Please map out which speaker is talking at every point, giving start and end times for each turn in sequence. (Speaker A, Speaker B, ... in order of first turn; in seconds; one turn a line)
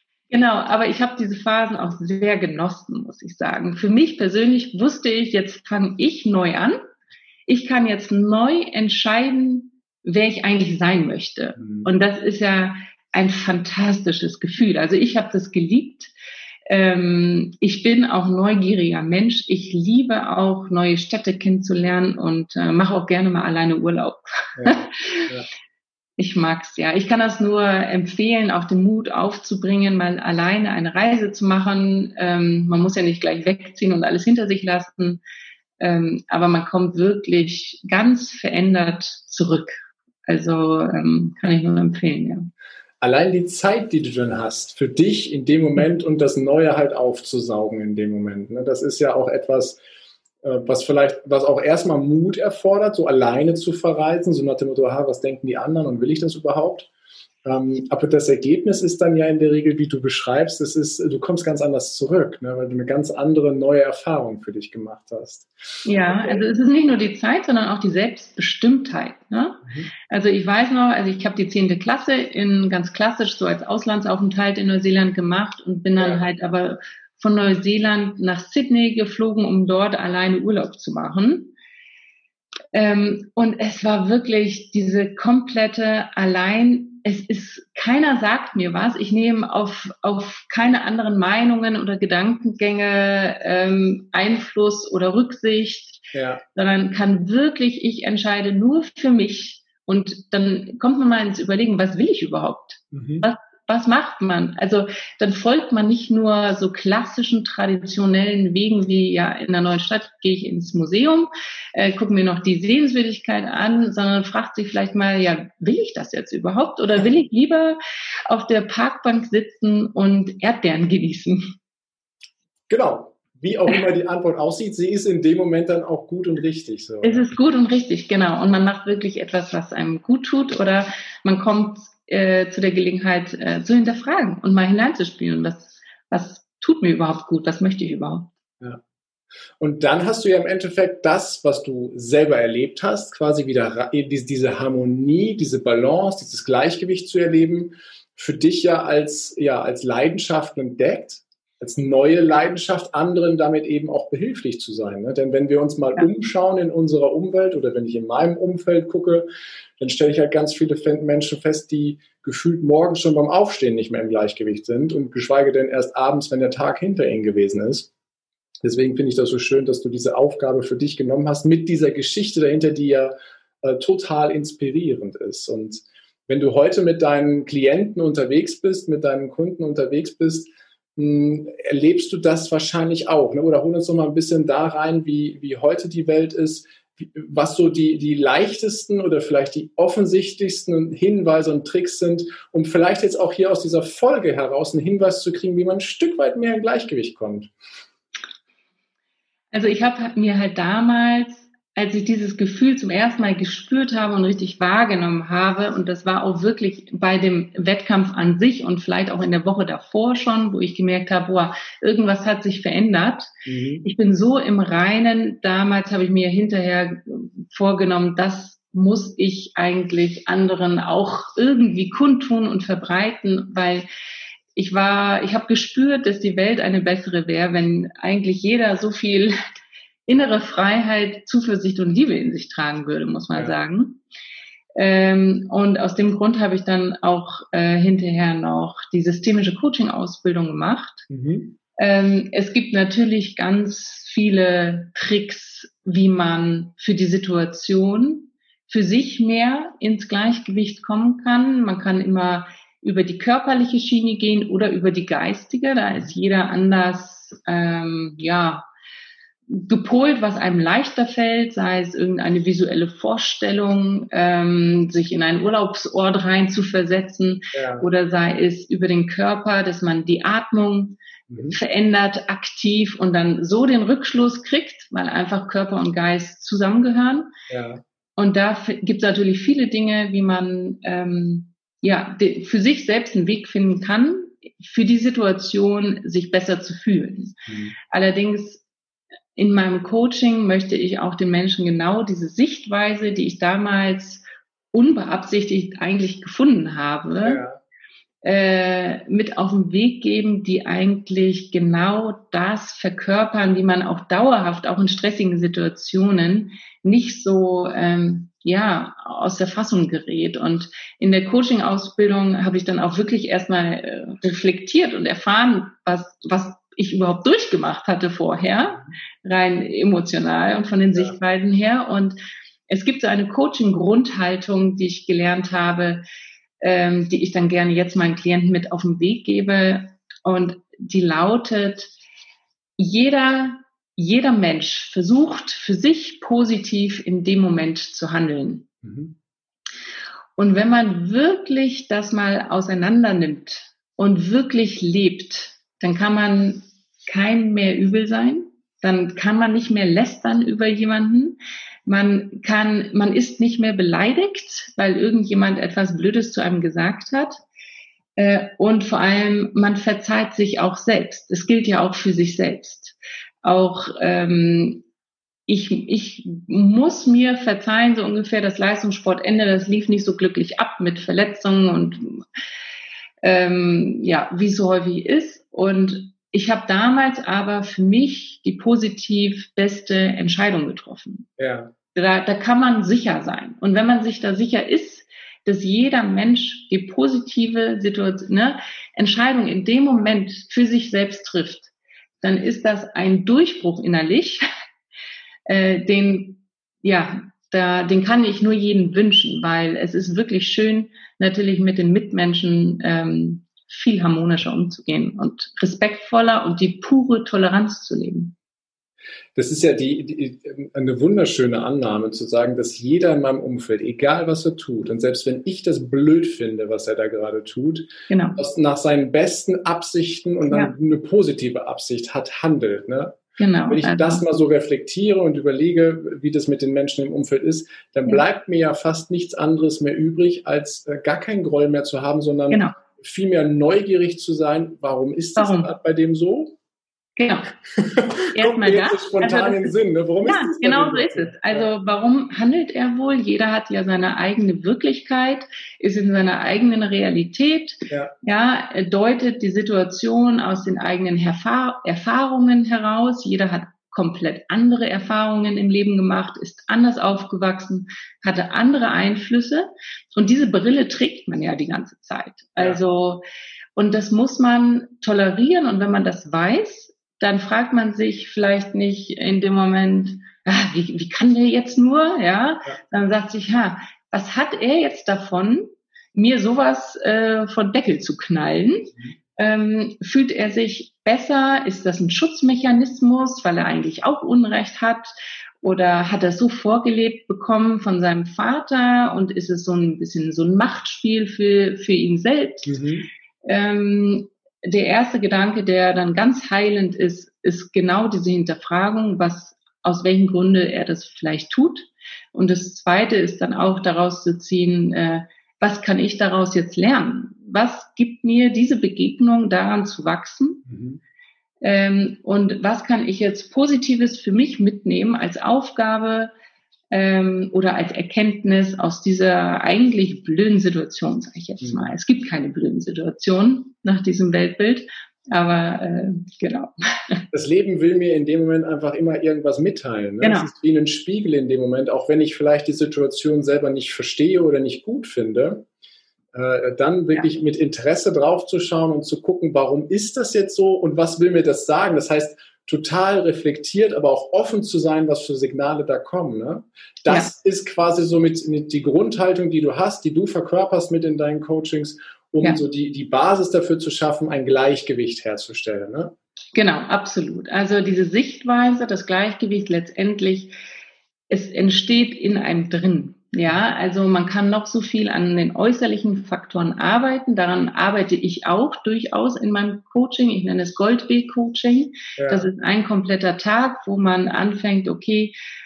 Speaker A: 0.3-6.8
Speaker A: 7.5-16.1
Speaker B: 11.6-11.9
Speaker A: 16.7-25.3
Speaker B: 24.6-25.5
Speaker A: 26.2-35.2
Speaker A: 35.8-42.5
Speaker B: 43.0-49.8
Speaker B: 50.4-56.9
Speaker B: 57.5-66.5
Speaker A: 65.8-81.5
Speaker B: 69.7-69.9
Speaker A: 82.7-121.4
Speaker B: 96.1-96.4
Speaker B: 102.9-103.3
Speaker B: 122.7-127.2
Speaker A: 127.0-138.3
Speaker B: 139.6-159.3
Speaker B: 159.8-167.9
Speaker B: 168.6-197.5
Speaker A: 199.5-213.3
Speaker B: 213.5-213.9
Speaker A: 213.8-223.8
Speaker A: 224.6-229.3
Speaker A: 230.1-234.0
Speaker A: 234.8-241.1
Speaker B: 241.1-241.6
Speaker A: 241.8-258.7
Speaker A: 259.5-277.3
Speaker B: 267.5-267.9
Speaker B: 271.3-271.6
Speaker B: 277.5-277.8
Speaker A: 278.2-287.4
Speaker B: 287.5-287.8
Speaker A: 287.9-288.6
Speaker A: 289.4-297.4
Speaker B: 297.2-297.6
Speaker A: 298.2-322.2
Speaker A: 322.7-326.0
Speaker A: 326.6-331.9
Speaker A: 332.8-338.7
Speaker B: 338.8-339.1
Speaker A: 340.4-357.4
Speaker A: 358.2-364.9
Speaker A: 365.5-372.2
Speaker A: 373.2-381.3
Speaker B: 381.4-381.7
Speaker A: 381.9-394.4
Speaker A: 395.5-408.4
Speaker B: 409.4-436.6
Speaker A: 418.1-418.4
Speaker A: 420.5-420.7
Speaker A: 423.4-424.2
Speaker A: 435.4-435.7
Speaker A: 437.2-437.5
Speaker B: 437.8-441.7
Speaker A: 438.3-463.2
Speaker B: 447.9-448.1
Speaker A: 463.8-485.1
Speaker A: 485.6-492.8
Speaker B: 492.7-493.1
Speaker A: 493.4-510.6
Speaker B: 510.7-511.0
Speaker A: 511.6-516.3
Speaker A: 516.9-527.2
Speaker B: 521.6-521.9
Speaker B: 527.3-535.7
Speaker A: 530.2-530.5
Speaker B: 536.3-556.1
Speaker A: 556.5-560.5
Speaker A: 561.3-575.4
Speaker B: 572.2-572.5